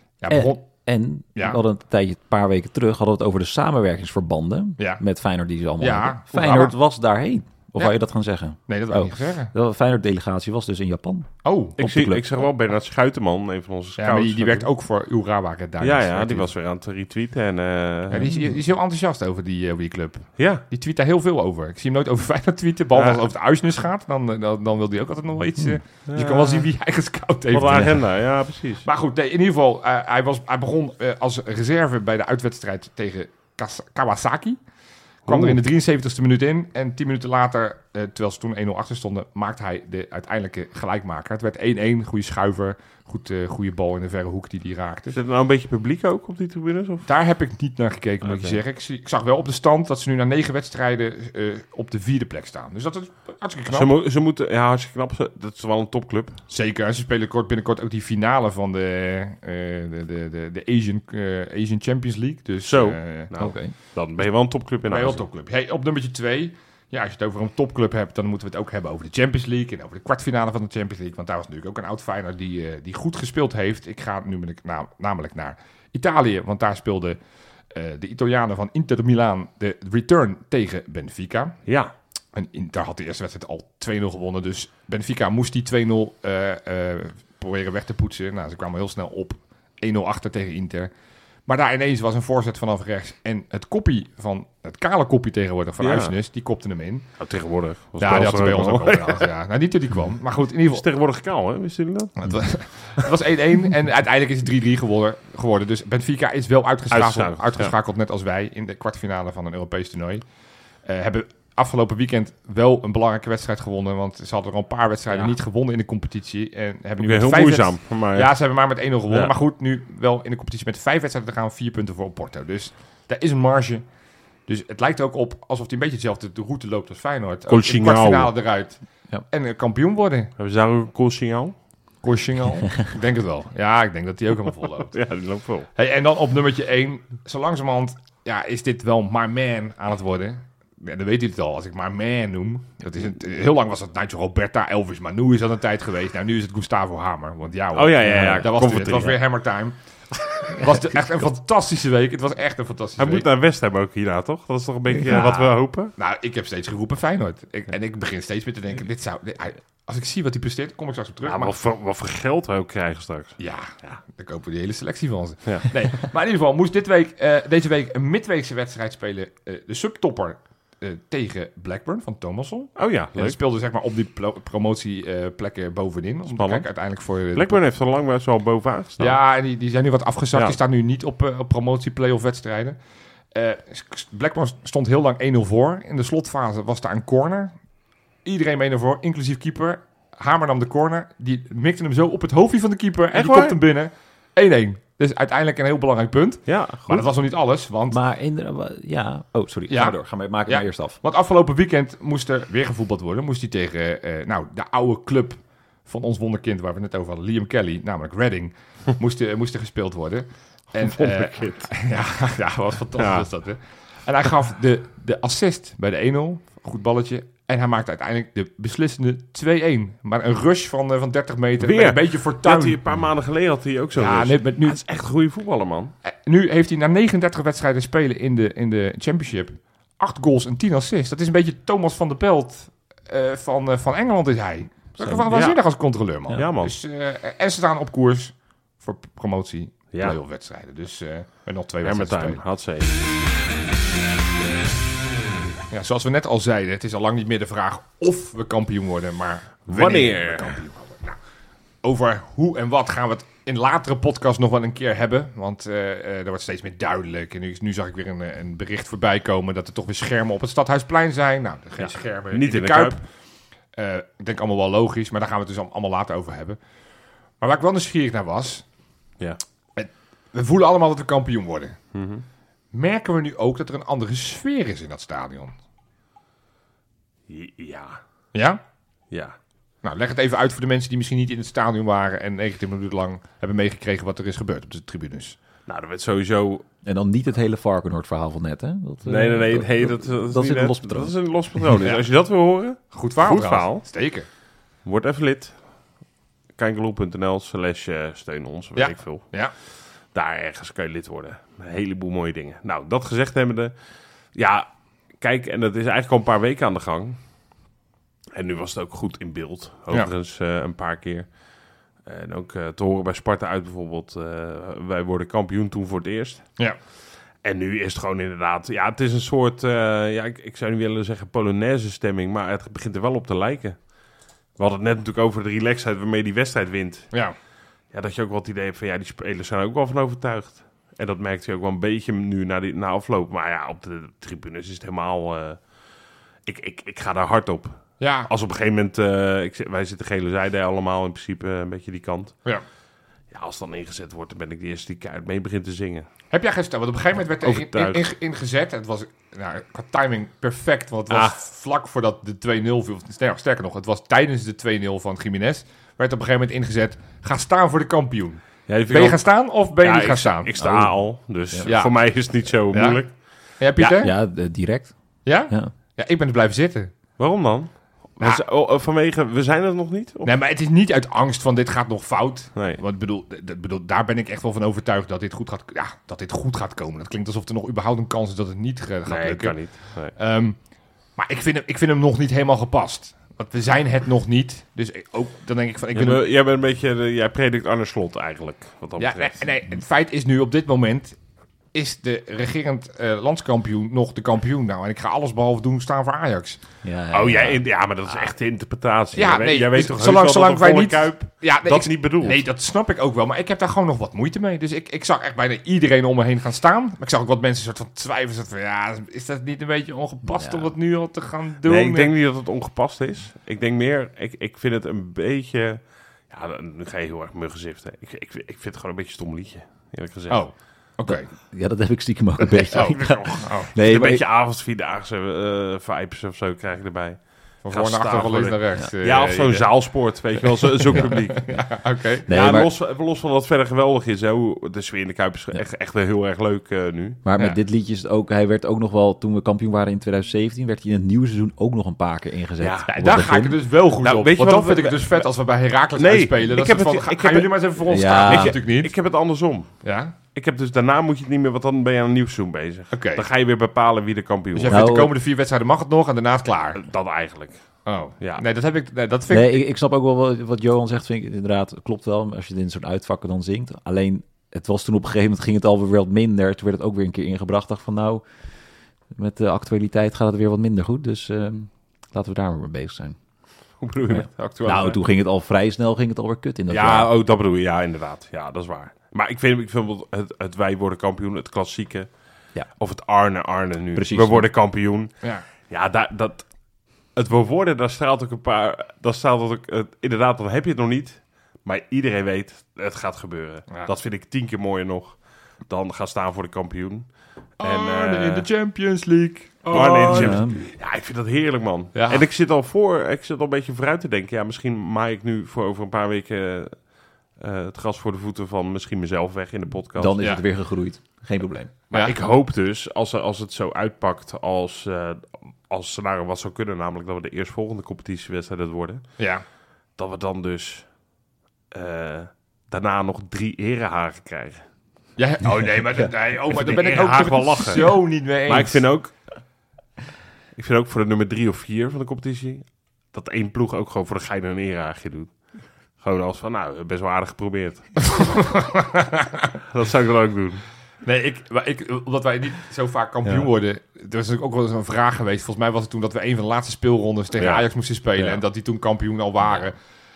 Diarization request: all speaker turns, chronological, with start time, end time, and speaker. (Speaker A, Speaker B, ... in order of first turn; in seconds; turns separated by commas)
Speaker A: 0.2-0.6, Speaker B: 0.3-12.4, Speaker A: 4.8-5.0, Speaker A: 5.8-6.7, Speaker A: 8.7-9.5, Speaker A: 11.4-11.8, Speaker C: 11.8-14.7, Speaker A: 14.0-16.5, Speaker C: 15.8-18.3, Speaker A: 18.1-28.0, Speaker B: 18.2-18.5, Speaker C: 20.4-20.6, Speaker C: 22.9-23.2, Speaker C: 26.1-26.7, Speaker C: 27.5-28.9, Speaker A: 28.8-34.6, Speaker A: 35.2-45.2, Speaker C: 35.3-35.6, Speaker C: 45.1-47.1, Speaker A: 47.0-53.9, Speaker C: 48.2-48.6, Speaker C: 53.7-56.4, Speaker A: 56.5-63.3, Speaker C: 62.6-65.2, Speaker B: 63.4-63.7, Speaker A: 64.9-77.2, Speaker A: 77.7-81.6, Speaker C: 81.7-81.9, Speaker A: 82.3-90.9, Speaker A: 91.5-97.1, Speaker C: 95.8-96.1, Speaker C: 97.2-99.3, Speaker A: 98.0-100.8, Speaker C: 100.7-102.3, Speaker A: 102.2-110.2, Speaker C: 106.9-107.7, Speaker A: 110.8-123.8, Speaker C: 117.0-118.3, Speaker A: 124.5-130.3, Speaker C: 127.5-128.3, Speaker C: 130.4-131.6, Speaker A: 132.0-134.9, Speaker C: 134.9-135.7, Speaker A: 135.8-153.3, Speaker C: 147.7-149.2, Speaker B: 148.0-148.5, Speaker C: 153.0-155.9, Speaker A: 155.0-161.5, Speaker C: 161.2-164.0, Speaker A: 163.4-177.6, Speaker C: 165.4-165.7, Speaker C: 172.8-173.4, Speaker C: 176.3-176.7, Speaker C: 177.3-179.2, Speaker A: 179.0-182.8, Speaker A: 183.3-187.5, Speaker A: 188.2-198.0, Speaker C: 193.1-193.6, Speaker C: 196.5-197.1, Speaker B: 197.9-201.0, Speaker A: 199.7-222.8, Speaker C: 210.8-211.7, Speaker C: 213.0-213.3, Speaker C: 221.6-225.9, Speaker A: 223.9-224.8, Speaker A: 226.0-242.4, Speaker C: 235.3-235.6, Speaker C: 236.3-236.7, Speaker C: 239.9-240.2, Speaker C: 241.8-243.2, Speaker A: 245.7-251.2, Speaker C: 249.7-250.6, Speaker A: 251.8-263.0, Speaker C: 261.8-263.0, Speaker A: 263.7-266.6, Speaker A: 267.4-268.6, Speaker A: 269.8-271.8, Speaker C: 271.9-272.2, Speaker A: 272.7-275.5, Speaker C: 277.3-278.0, Speaker A: 278.3-278.6, Speaker C: 279.1-279.4, Speaker A: 279.8-285.4, Speaker C: 285.6-286.6, Speaker B: 286.8-291.1, Speaker C: 289.0-293.9, Speaker A: 292.9-294.2, Speaker C: 294.8-295.6, Speaker C: 296.6-299.4, Speaker A: 298.8-299.5, Speaker C: 300.0-303.7, Speaker C: 304.3-304.7, Speaker C: 305.2-307.2, Speaker C: 308.3-311.3, Speaker C: 312.0-316.4, Speaker C: 317.4-323.9, Speaker C: 324.6-327.2, Speaker C: 327.9-335.6, Speaker C: 336.4-342.4, Speaker A: 338.0-338.3, Speaker C: 343.3-346.1, Speaker A: 346.3-360.5, Speaker C: 347.4-348.1, Speaker C: 351.1-351.4, Speaker C: 358.7-363.2, Speaker B: 360.6-361.7, Speaker A: 361.6-362.1, Speaker A: 362.7-363.0, Speaker A: 363.6-364.1, Speaker B: 363.8-365.7, Speaker A: 365.2-366.9, Speaker C: 367.2-370.3, Speaker A: 370.2-380.6, Speaker C: 372.6-372.8, Speaker C: 379.0-380.2, Speaker A: 381.1-386.2, Speaker C: 385.9-389.5, Speaker A: 389.0-391.2, Speaker A: 391.7-396.6, Speaker B: 396.8-397.6, Speaker C: 397.1-402.4, Speaker A: 399.1-412.1, Speaker B: 410.3-410.7, Speaker C: 411.6-420.5, Speaker A: 420.3-421.3, Speaker B: 421.1-424.2, Speaker C: 422.5-431.7, Speaker A: 423.4-423.7, Speaker A: 427.6-432.3, Speaker B: 432.3-432.7, Speaker C: 432.3-437.2, Speaker B: 437.2-443.6, Speaker C: 442.6-442.9, Speaker A: 442.9-448.9, Speaker C: 444.0-445.3, Speaker C: 445.9-449.7, Speaker B: 447.9-448.6, Speaker A: 449.8-450.1, Speaker C: 450.3-454.8, Speaker A: 452.9-453.3, Speaker A: 454.5-456.8, Speaker B: 454.7-455.1, Speaker C: 456.7-458.4, Speaker A: 457.9-459.6, Speaker B: 459.3-468.3, Speaker B: 469.1-473.2, Speaker C: 473.8-475.0, Speaker B: 474.1-477.1, Speaker C: 476.7-482.1, Speaker C: 482.7-486.5, Speaker B: 483.9-484.5, Speaker C: 487.1-498.5, Speaker A: 497.6-500.5, Speaker C: 499.7-510.3, Speaker B: 500.1-500.6, Speaker A: 501.9-502.3, Speaker B: 510.0-511.7, Speaker C: 511.9-519.1, Speaker A: 519.2-519.4, Speaker C: 520.0-520.9, Speaker C: 521.7-524.6, Speaker A: 525.2-528.8, Speaker C: 526.5-529.1, Speaker C: 530.5-535.4, Speaker C: 536.0-538.2, Speaker A: 538.0-539.5, Speaker C: 539.6-540.6, Speaker A: 541.0-549.8, Speaker C: 547.4-547.6